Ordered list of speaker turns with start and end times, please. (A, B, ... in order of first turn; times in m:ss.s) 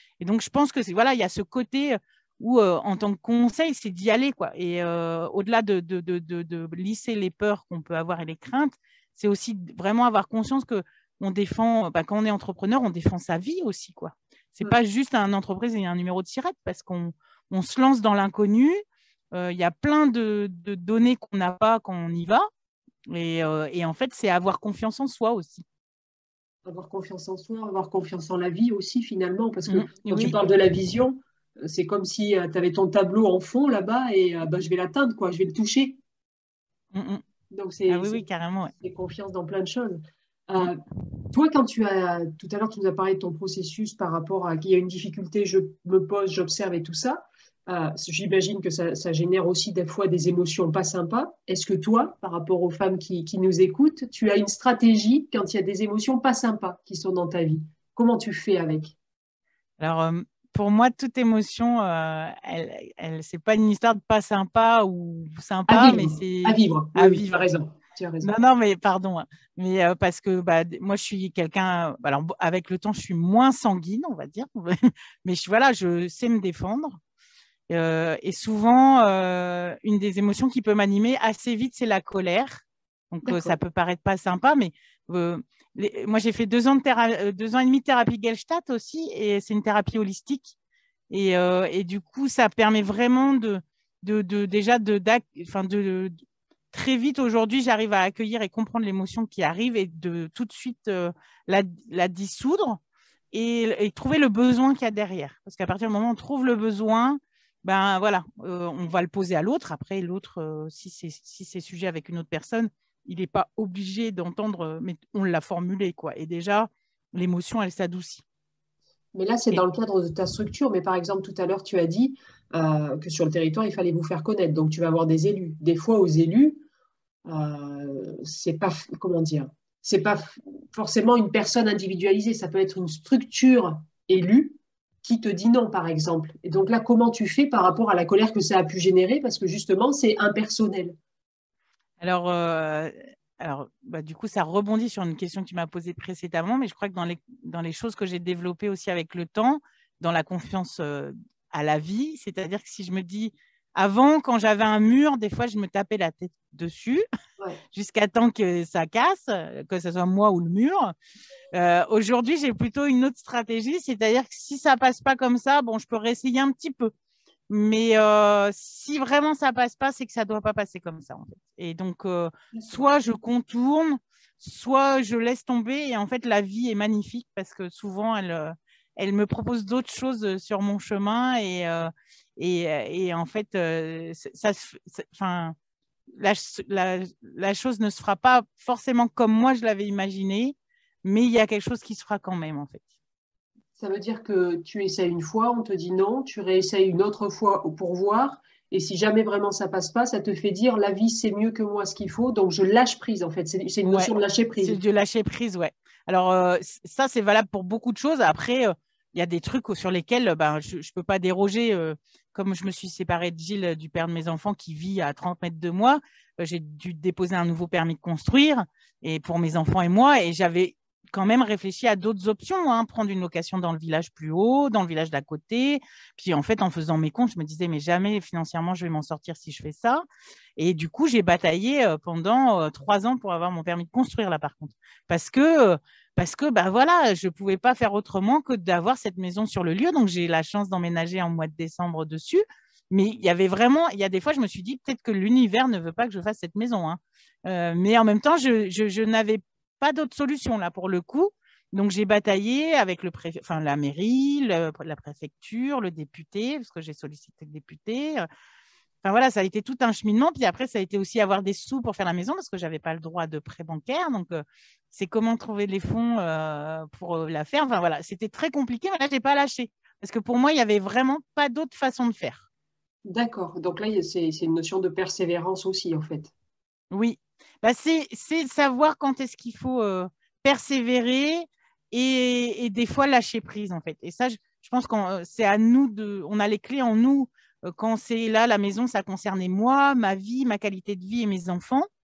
0:00.2-0:18.8 A
0:19.3-0:22.4 A
0:23.1-0:25.6 A
0:26.6-0:36.0 B
0:29.7-0:30.3 A
0:36.9-0:37.2 A
0:37.5-0:40.8 B
0:37.9-0:38.7 A
0:41.3-0:58.9 B
0:59.8-1:07.5 A
1:05.7-1:08.3 B
1:08.2-1:17.0 A
1:17.7-1:30.5 A
1:23.2-1:23.6 B
1:31.1-1:36.2 A
1:36.7-1:42.8 A
1:43.3-1:58.2 A
1:59.1-2:06.6 B
2:07.2-2:21.0 B
2:22.0-2:37.0 A
2:37.7-2:40.9 A
2:41.5-2:46.9 A
2:47.5-3:05.5 A
2:52.5-2:52.8 B
3:06.2-3:12.8 A
3:13.8-3:24.8 B
3:23.8-3:50.0 A
3:50.6-4:18.2 A
4:19.0-4:32.4 A
4:33.0-4:36.3 B
4:36.9-4:51.8 A